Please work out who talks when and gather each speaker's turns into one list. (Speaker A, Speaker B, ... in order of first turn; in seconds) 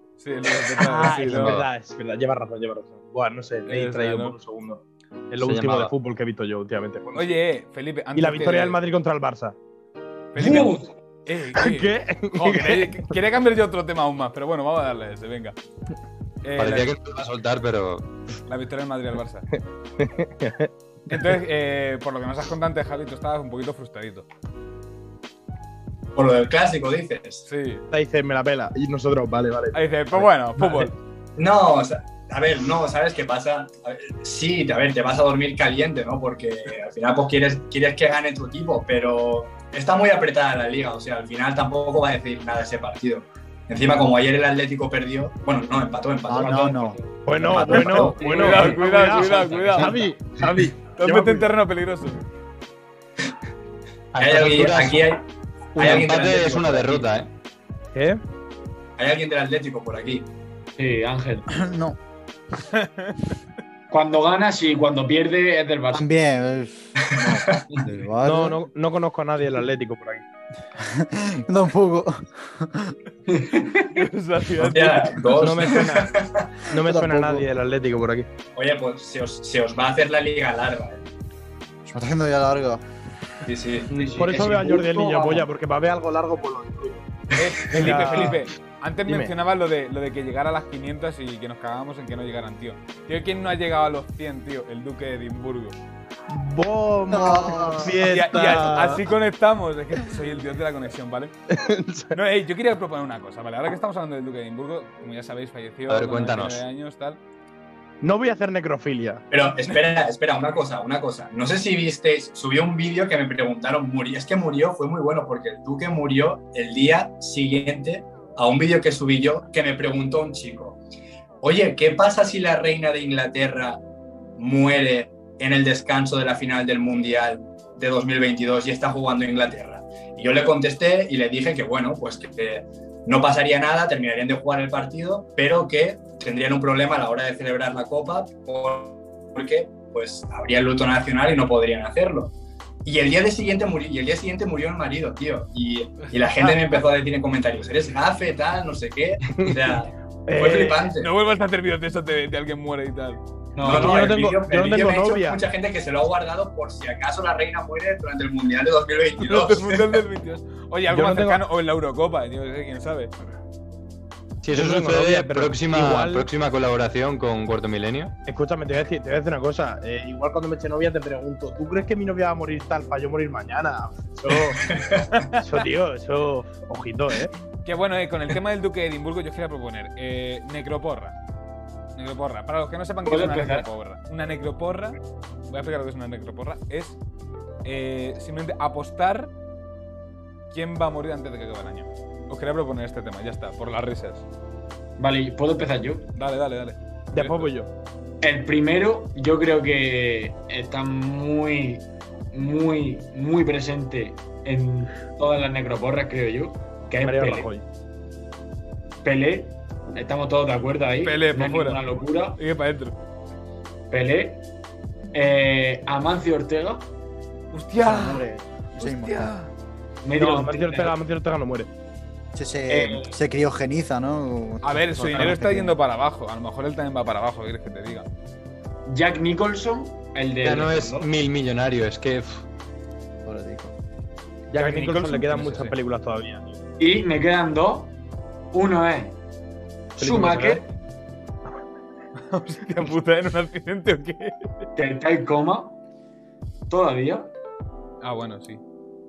Speaker A: 0.2-1.6, 3.6-4.4, 7.1-8.8, 10.3-15.6, 16.4-16.9, 18.5-19.5, 21.1-24.3, 27.5-27.9, 29.7-30.9, 47.7-50.0, 50.9-52.2, 62.8-63.1, 73.8-75.3, 87.3-95.8, 98.0-101.3, 102.1-107.2, 151.0-153.2, 159.2-163.1, 175.2-175.4, 177.7-181.2, 182.0-185.0, 185.5-187.0, 187.7-189.3, 190.5-194.3, 196.2-197.5, 211.0-211.8, 212.4-212.9, 217.5-218.3, 218.8-219.5, 224.6-228.1, 234.6-235.7, 242.3-244.5, 248.0-248.6
Speaker B: 0.7-7.4, 8.2-9.6, 10.4-10.8, 11.6-13.1, 19.5-21.1, 27.9-30.9, 47.3-51.5, 57.9-58.2, 68.2-70.2, 75.3-78.3, 83.9-87.1, 87.7-88.4, 89.1-89.3, 96.3-99.0, 101.5-102.2, 108.0-109.3, 150.3-150.9, 153.7-155.4, 160.9-161.4, 164.5-166.3, 168.3-174.8, 175.4-177.3, 197.1-197.7, 207.0-207.6, 220.2-221.7, 234.5-236.6, 240.0-240.6
Speaker C: 1.1-1.7, 5.4-5.9, 16.6-18.1, 54.1-55.1, 55.8-57.3, 105.9-106.6, 164.4-168.1, 230.4-232.4
Speaker D: 10.4-10.9, 46.4-50.5, 60.8-61.5, 63.9-66.1, 73.3-73.9, 83.9-85.5, 153.6-154.2, 183.1-183.7, 195.0-196.1, 198.2-207.5, 209.0-212.4, 213.9-214.4, 215.1-216.9, 220.0-221.0, 222.7-223.2, 225.1-225.4, 228.9-231.1, 236.8-237.9, 238.5-239.2, 240.0-240.7, 244.8-245.8, 246.7-247.3
Speaker E: 26.2-27.5, 31.4-46.9, 54.2-55.2, 55.8-57.1, 59.0-60.3, 67.0-67.7, 74.6-76.6, 78.5-81.0, 83.5-83.9, 109.3-120.8, 121.4-123.8, 124.4-142.3, 142.8-151.1, 153.6-160.0, 174.5-175.1
Speaker F: 46.3-48.1, 61.5-62.0, 65.9-68.6, 70.8-73.0, 76.7-77.5, 81.9-82.8, 97.1-98.5, 217.8-219.3, 222.3-225.8, 233.2-233.7